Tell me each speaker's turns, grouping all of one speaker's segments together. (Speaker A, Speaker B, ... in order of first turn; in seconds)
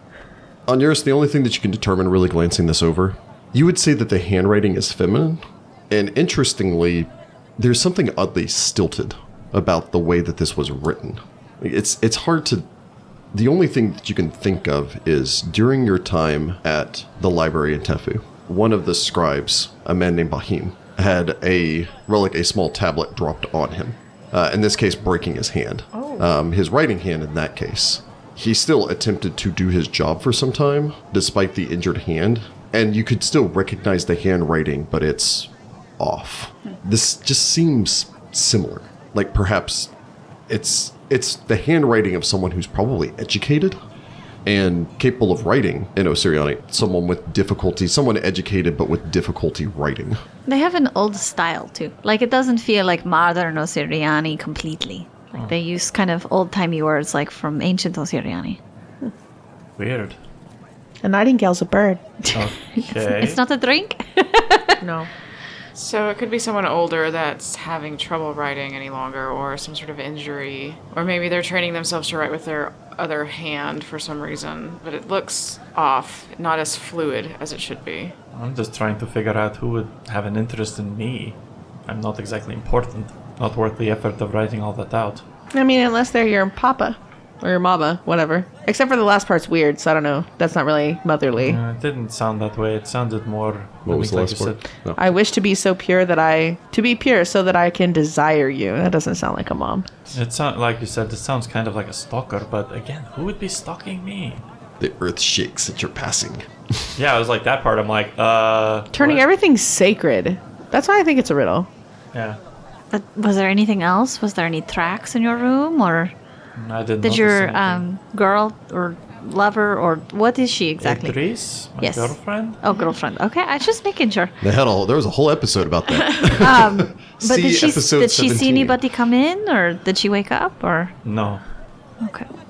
Speaker A: 0.7-12.7, 13.3-39.9, 40.5-43.8, 44.5-50.2, 93.9-95.1, 104.8-106.9, 124.4-128.8
Speaker B: 26.0-26.2, 65.8-78.2
Speaker C: 50.5-58.6, 62.9-64.8, 112.9-116.1, 117.0-121.2, 121.8-124.3, 126.3-130.9, 132.0-132.3
Speaker D: 59.8-60.2, 62.3-63.4, 78.3-85.2, 91.4-94.6, 100.1-104.5, 107.0-109.3, 112.1-112.4, 116.6-117.8, 120.8-122.6, 131.0-131.4
Speaker E: 61.0-62.4, 64.8-65.1, 85.5-91.6, 95.0-99.9, 108.9-111.7